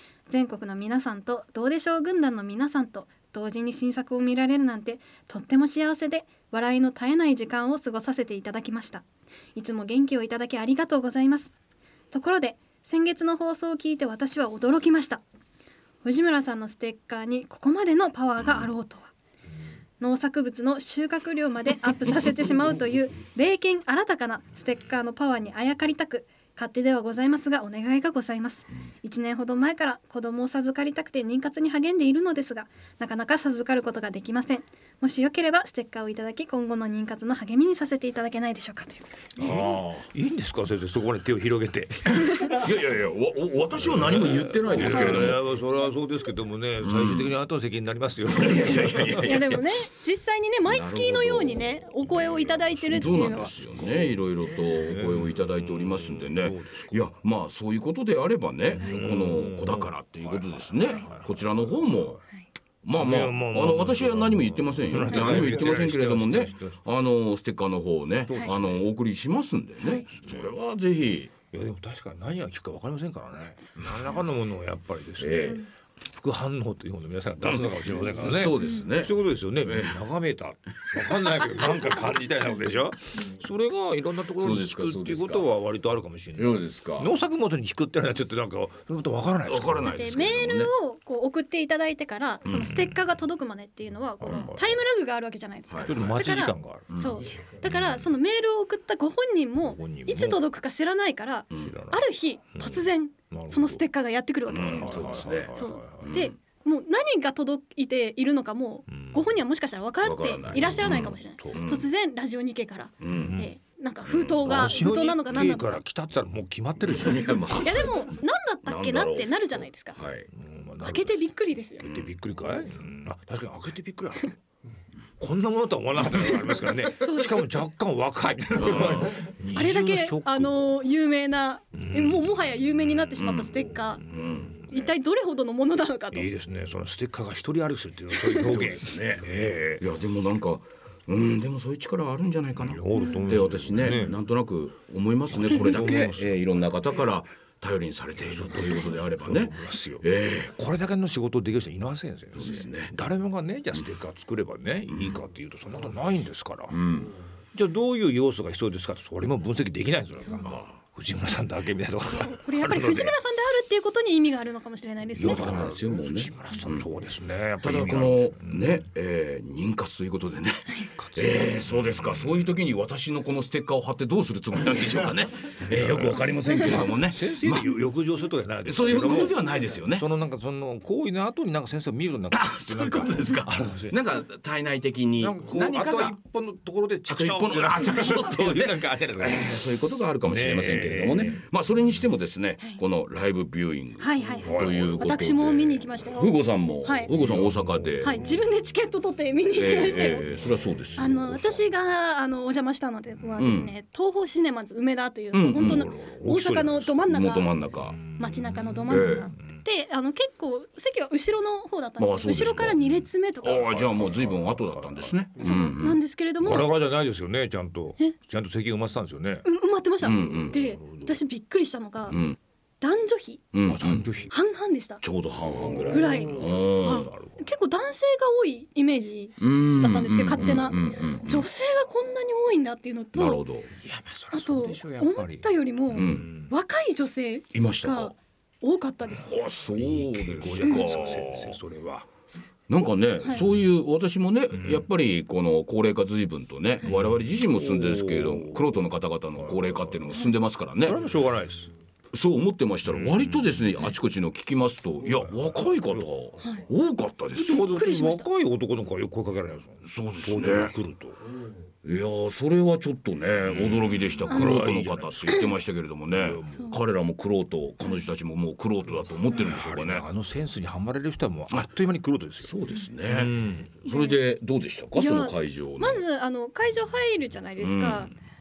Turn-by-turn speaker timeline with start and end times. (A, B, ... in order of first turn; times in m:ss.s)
0:00.3-0:09.0 A
0:09.6-0:11.5 A
0:12.1-0:15.2 A
0:16.0-0:19.1 A
0:18.4-0:18.7 B
0:20.0-0:39.6 A
0:39.4-0:40.1 B
0:39.4-0:42.5 C
0:42.2-0:45.4 B
0:43.7-0:49.4 C
0:46.8-0:47.3 B
0:48.3-0:49.6 B
0:48.6-0:53.5 A
0:50.6-0:51.7 B
0:52.8-1:02.2 B
0:53.0-0:57.1 C
0:58.7-1:02.2 C
0:58.8-0:59.0 A
1:02.8-1:11.3 B
1:03.0-1:06.8 C
1:05.1-1:05.7 A
1:08.3-1:08.9 C
1:09.8-1:10.0 A
1:10.1-1:10.5 C
1:11.5-1:29.9 C
1:13.7-1:14.2 A
1:15.2-1:15.7 B
1:17.4-1:20.0 B
1:18.6-1:18.8 A
1:21.6-1:22.4 A
1:24.3-1:25.4 B
1:26.4-1:27.1 B
1:29.5-1:30.7 B
1:29.8-1:55.8 A
1:32.4-1:32.8 B
1:32.6-1:33.0 C
1:34.2-1:34.8 C
1:34.2-1:34.5 B
1:35.7-1:38.0 B
1:35.8-1:37.0 C
1:39.6-1:40.4 C
1:41.5-1:43.8 C
1:44.5-1:46.1 C
1:44.5-1:46.3 B
1:48.9-1:49.2 C
1:50.0-1:51.9 B
1:50.5-1:51.7 C
1:53.0-1:53.4 B
1:53.1-1:53.5 C
1:54.0-1:54.8 B
1:54.4-1:57.7 C
1:56.8-1:58.1 B
1:57.6-2:00.0 A
1:58.6-2:00.3 B
2:00.3-2:04.4 C
2:00.8-2:01.9 A
2:01.8-2:02.1 B
2:02.5-2:02.8 A
2:05.2-2:10.8 C
2:06.0-2:07.5 A
2:08.5-2:09.3 B
2:09.5-2:16.3 A
2:11.7-2:12.4 C
2:13.2-2:14.6 B
2:14.0-2:14.9 C
2:16.1-2:19.8 C
2:18.2-2:18.5 A
2:18.4-2:19.3 B
2:19.8-2:30.5 B
2:22.6-2:24.2 C
2:22.9-2:23.3 A
2:25.3-2:26.4 C
2:28.1-2:36.8 C
2:32.3-2:32.9 B
2:34.9-2:35.2 B
2:36.7-2:37.1 B
2:37.5-2:43.2 C
2:40.4-2:40.8 B
2:42.1-2:45.4 A
2:45.1-2:48.8 C
2:45.2-2:46.9 B
2:47.6-2:57.8 B
2:51.0-2:52.5 C
2:55.6-3:04.0 C
2:58.6-3:00.0 B
3:02.3-3:06.2 B
3:05.2-3:09.7 C
3:07.1-3:18.2 B
3:10.2-3:11.4 C
3:14.0-3:17.1 A
3:14.4-3:15.3 C
3:17.1-3:18.3 C
3:18.0-3:20.2 A
3:19.5-3:21.6 B
3:20.3-3:21.6 C
3:21.0-3:27.5 A
3:23.4-3:23.7 B
3:25.3-3:25.9 B
3:25.5-3:27.3 C
3:27.1-3:28.0 B
3:27.8-3:29.6 C
3:28.2-3:33.9 A
3:28.9-3:29.3 B
3:32.0-3:36.0 B
3:33.4-3:35.2 C
3:35.4-3:36.7 A
3:36.4-3:39.5 C
3:39.4-3:42.2 A
3:40.0-3:40.6 B
3:40.6-3:41.1 C
3:42.1-3:42.4 B
3:42.8-3:43.5 A
3:43.5-3:44.0 B
3:43.6-3:44.3 C
3:44.3-3:45.0 A
3:45.0-3:47.1 B
3:45.5-3:47.5 C
3:45.9-3:53.4 A
3:49.4-3:51.5 B
3:50.4-3:50.8 C
3:53.1-3:53.7 B
3:53.7-3:56.5 C
3:54.3-3:59.4 A
3:55.9-3:56.3 B
3:57.5-3:58.1 B
3:59.2-4:01.6 B
3:59.3-4:02.1 C
4:00.6-4:00.9 A
4:02.7-4:11.0 B
4:04.5-4:04.8 C
4:06.8-4:08.8 C
4:09.4-4:10.2 C
4:10.8-4:11.7 C
4:12.1-4:17.6 B
4:12.8-4:13.6 C
4:15.2-4:16.1 C
4:17.3-4:21.2 C
4:17.4-4:18.3 A
4:19.8-4:20.7 B
4:21.8-4:30.0 B
4:24.2-4:25.5 C
4:24.3-4:24.6 A
4:26.1-4:26.7 C
4:26.5-4:26.8 A
4:29.3-4:32.5 C
4:32.4-4:36.0 B
4:33.0-4:33.8 C
4:33.9-4:34.2 A
4:34.9-4:38.1 A
4:37.6-4:38.1 B